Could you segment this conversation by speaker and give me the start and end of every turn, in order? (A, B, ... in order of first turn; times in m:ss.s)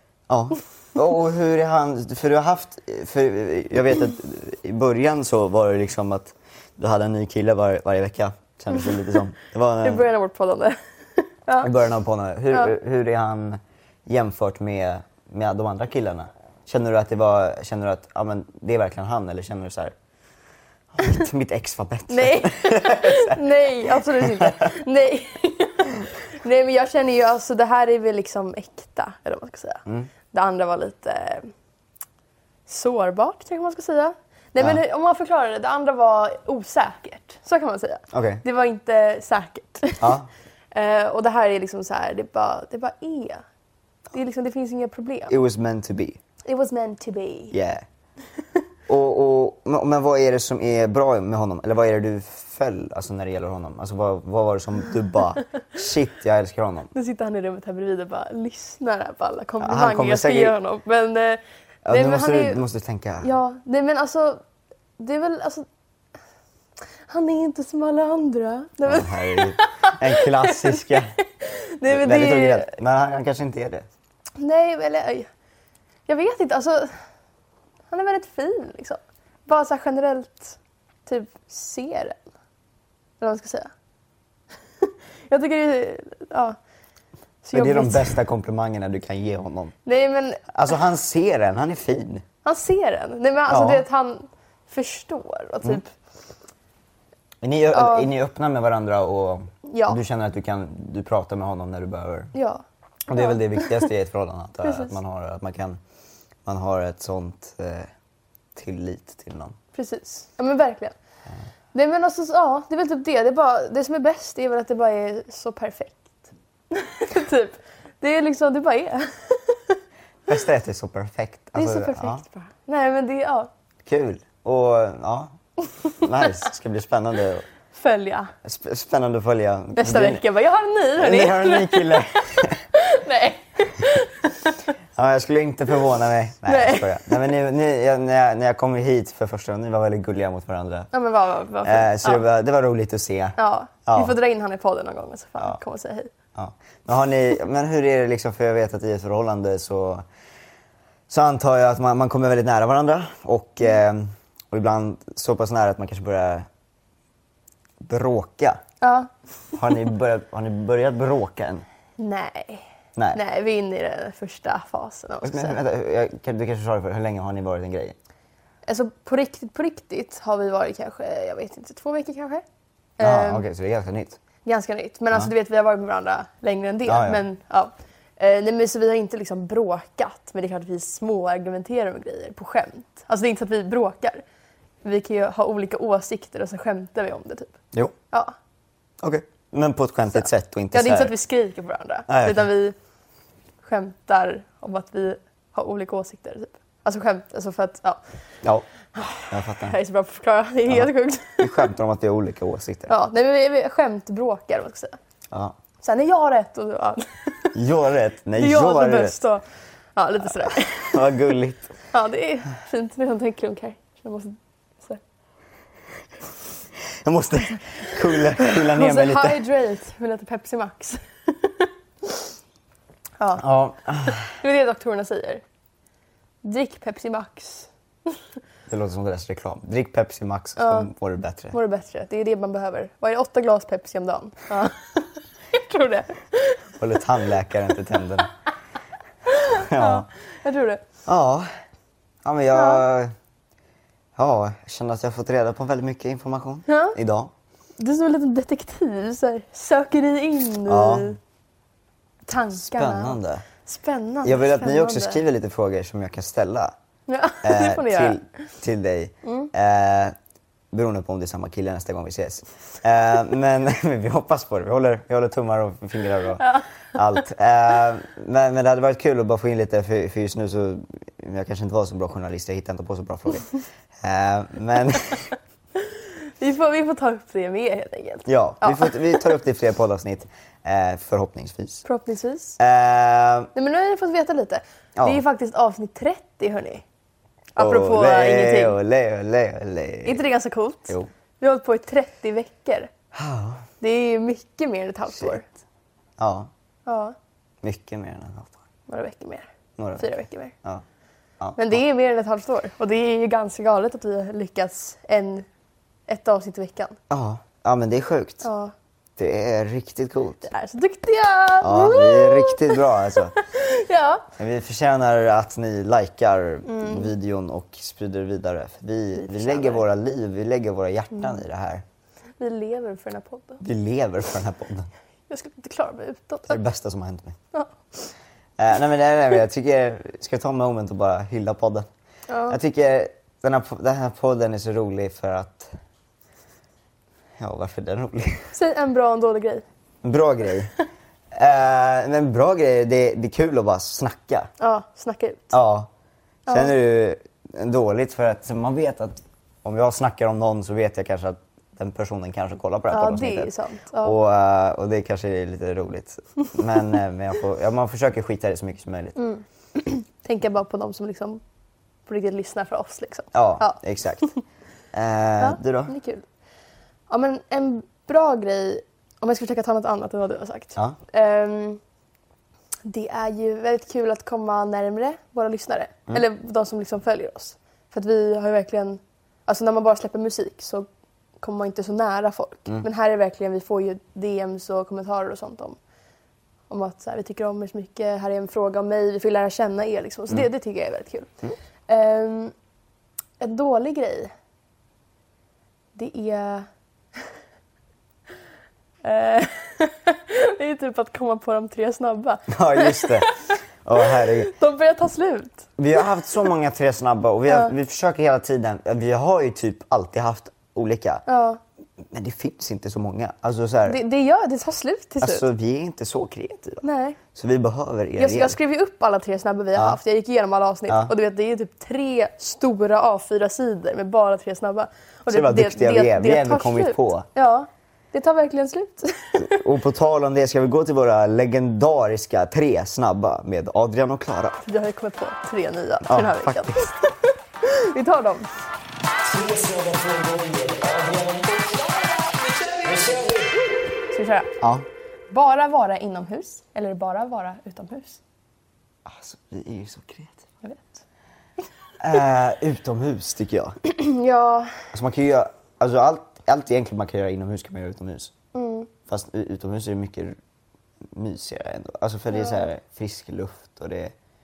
0:00.3-0:10.0 A
0:09.8-0:11.7 B
0:11.6-0:19.9 A
0:20.9-0:24.6 A
0:22.1-0:31.5 B
0:32.7-0:40.2 B
0:38.1-0:38.4 A
0:40.0-0:40.3 A
0:40.7-0:43.4 B
0:44.1-0:45.4 B
0:45.3-0:46.2 A
0:46.4-0:47.5 B
0:47.5-0:47.8 A
0:48.9-0:56.9 A
0:56.9-1:02.6 B
0:59.6-1:00.5 A
1:01.8-1:03.3 A
1:03.2-1:04.4 B
1:05.0-1:05.6 B
1:07.1-1:12.7 B
1:08.8-1:11.1 A
1:11.9-1:13.9 A
1:14.4-1:15.3 B
1:16.1-1:16.9 B
1:17.9-1:22.2 B
1:23.2-1:23.7 B
1:24.8-1:26.6 B
1:27.4-1:28.2 B
1:27.5-1:29.7 A
1:29.8-1:30.5 B
1:30.5-1:32.2 A
1:32.4-1:35.9 B
1:33.5-1:33.8 A
1:37.4-1:42.3 A
1:37.7-1:38.1 B
1:39.6-1:40.0 B
1:42.3-1:43.9 B
1:43.1-1:45.8 A
1:44.6-1:44.9 B
1:46.4-1:47.9 A
1:48.5-1:49.6 A
1:49.7-1:50.9 B
1:51.7-1:56.2 B
1:56.7-1:59.8 B
2:00.3-2:02.2 A
2:01.6-2:03.5 B
2:03.8-2:05.3 A
2:05.9-2:07.5 A
2:06.0-2:06.3 B
2:07.7-2:08.3 B
2:08.4-2:10.2 A
2:09.8-2:12.0 B
2:11.0-2:12.7 A
2:12.7-2:14.5 B
2:15.0-2:20.9 A
2:16.4-2:17.2 B
2:20.9-2:22.2 B
2:21.6-2:24.2 A
2:23.4-2:26.1 B
2:26.3-2:30.0 A
2:31.1-2:36.5 A
2:37.8-2:38.6 A
2:38.8-2:39.1 B
2:39.5-2:41.6 A
2:42.0-2:45.6 B
2:45.2-2:48.0 A
2:48.6-2:52.4 B
2:53.0-2:53.4 B
2:53.0-2:54.2 A
2:54.4-3:04.2 B
2:56.8-2:57.2 A
3:04.8-3:07.6 B
3:09.0-3:11.1 A
3:10.2-3:12.8 B
3:12.1-3:12.5 A
3:13.6-3:18.0 B
3:18.9-3:21.7 B
3:19.3-3:19.7 A
3:20.7-3:22.9 A
3:22.9-3:25.0 B
3:25.3-3:25.6 A
3:25.8-3:27.5 B
3:27.5-3:29.2 A
3:28.3-3:29.4 B
3:30.0-3:31.0 B
3:30.4-3:31.7 A
3:31.9-3:35.0 B
3:36.8-3:39.4 A
3:38.4-3:42.3 B
3:43.2-3:43.4 B
3:43.4-3:44.3 A
3:44.1-3:45.4 B
3:46.4-3:48.2 B
3:48.7-3:51.5 A
3:50.6-3:50.9 B
3:51.5-3:56.7 B
3:56.8-3:58.3 A
3:59.3-4:00.8 B
3:59.5-4:00.1 A
4:01.0-4:01.5 A
4:02.2-4:03.1 A
4:02.5-4:02.8 B
4:04.2-4:07.3 A
4:06.7-4:07.0 B
4:07.8-4:11.2 B
4:10.6-4:11.1 A
4:12.3-4:15.2 B
4:12.5-4:13.4 A
4:14.2-4:16.7 A
4:17.1-4:18.2 B
4:17.4-4:20.1 A
4:19.2-4:19.5 B
4:20.7-4:35.3 A
4:26.4-4:26.7 B
4:35.8-4:39.2 B
4:38.2-4:41.8 A
4:41.8-4:42.6 B
4:42.6-4:43.5 A
4:43.5-4:46.8 B
4:47.6-4:48.8 B
4:47.6-4:50.2 A
4:50.0-4:52.9 B
4:53.1-4:53.6 A
4:53.8-4:55.5 B
4:56.2-4:56.5 A
4:56.8-4:57.1 B
4:57.6-4:58.6 A
4:58.9-5:00.5 B
4:59.8-5:00.8 A
5:01.4-5:01.8 A
5:01.6-5:05.5 B
5:06.1-5:07.0 B
5:07.1-5:08.5 A
5:08.4-5:08.7 B
5:09.2-5:10.5 A
5:10.4-5:14.2 B
5:11.6-5:13.3 A
5:14.4-5:21.8 A
5:16.6-5:17.1 B
5:19.2-5:19.8 B
5:22.4-5:23.6 B
5:23.6-5:24.9 A
5:25.3-5:26.6 B
5:26.5-5:27.4 A
5:27.5-5:28.1 B
5:28.6-5:31.8 A
5:32.3-5:32.6 B
5:32.5-5:35.7 A
5:37.4-5:38.5 A
5:38.5-5:39.6 B
5:40.0-5:40.7 A
5:41.3-5:44.5 A
5:44.6-5:45.5 B
5:45.5-5:45.9 A
5:46.5-5:46.7 B
5:46.5-5:53.5 A
5:52.9-5:54.2 B
5:54.0-5:59.2 A
5:59.2-6:01.4 B
6:02.1-6:03.8 B
6:03.3-6:04.3 A
6:04.9-6:05.9 A
6:05.4-6:06.2 B
6:07.1-6:11.8 B
6:12.8-6:20.9 B
6:21.4-6:25.8 B
6:26.7-6:31.3 B
6:31.9-6:32.5 B
6:33.4-6:34.3 B
6:35.9-6:36.7 B
6:39.0-6:46.0 B
6:42.5-6:43.3 A
6:43.8-6:44.5 A
6:45.8-6:51.2 A
6:47.5-6:47.7 B
6:51.2-6:51.6 B
6:52.0-6:54.0 A
6:53.8-6:55.4 B
6:55.2-6:58.6 A
6:56.8-6:57.2 B
6:58.2-7:09.6 B
7:00.9-7:01.1 A
7:05.3-7:07.3 A
7:09.4-7:14.6 A
7:14.6-7:18.5 B
7:16.0-7:16.9 A
7:19.2-7:23.6 A
7:24.1-7:24.6 B
7:24.6-7:24.8 A
7:25.3-7:28.2 B
7:29.0-7:30.4 A
7:30.6-7:31.0 B
7:32.0-7:33.8 A
7:33.8-7:34.9 B
7:34.9-7:38.3 A
7:38.5-7:38.9 B
7:39.1-7:40.4 A
7:41.0-7:44.1 A
7:42.3-7:42.7 B